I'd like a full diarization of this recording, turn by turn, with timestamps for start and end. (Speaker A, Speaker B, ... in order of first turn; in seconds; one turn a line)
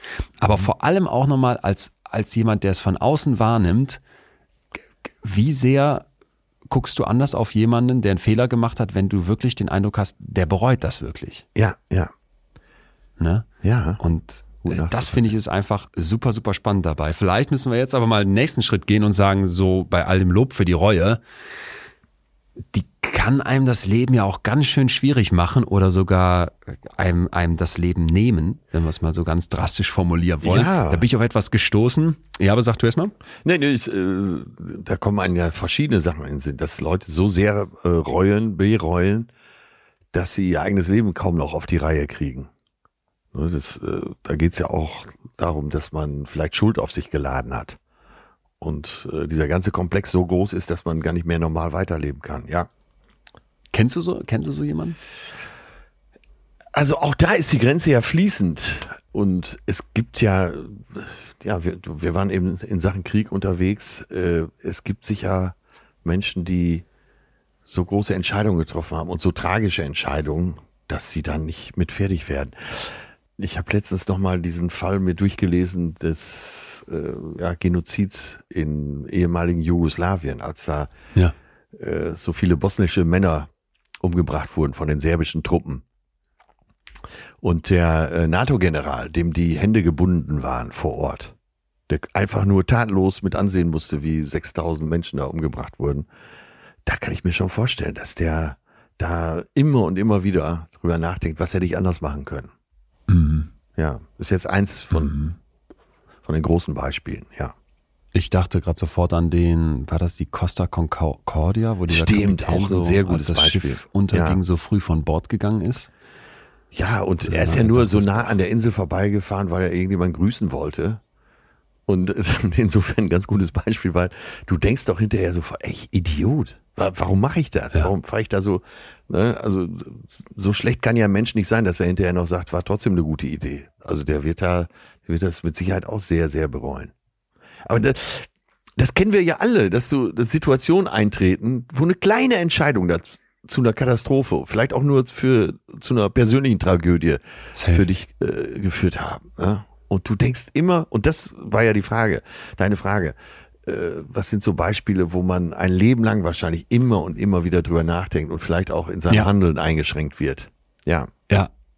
Speaker A: 0.4-4.0
Speaker A: 5.2-6.1
Speaker A: 6.7-11.4
Speaker B: 11.6-12.1
Speaker A: 13.2-13.5
Speaker B: 13.6-14.0
Speaker A: 14.0-21.2
Speaker B: 14.6-15.3
Speaker A: 22.7-33.1
Speaker B: 30.4-31.1
Speaker B: 33.4-39.3
Speaker B: 40.1-42.5
Speaker B: 43.3-47.8
Speaker B: 48.6-52.7
Speaker A: 53.7-55.0
Speaker B: 56.7-66.8
Speaker B: 67.7-80.9
Speaker B: 81.8-83.5
Speaker B: 84.0-85.8
Speaker B: 87.4-91.3
Speaker B: 91.9-96.1
Speaker B: 96.8-102.5
Speaker A: 103.1-103.5
Speaker B: 103.8-105.2
Speaker A: 104.9-105.4
Speaker B: 106.2-107.5
Speaker A: 108.1-115.9
Speaker B: 111.9-114.4
Speaker B: 116.7-121.0
Speaker A: 117.2-118.1
Speaker B: 121.9-136.9
Speaker B: 137.7-147.2
Speaker A: 147.6-147.9
Speaker B: 147.7-161.1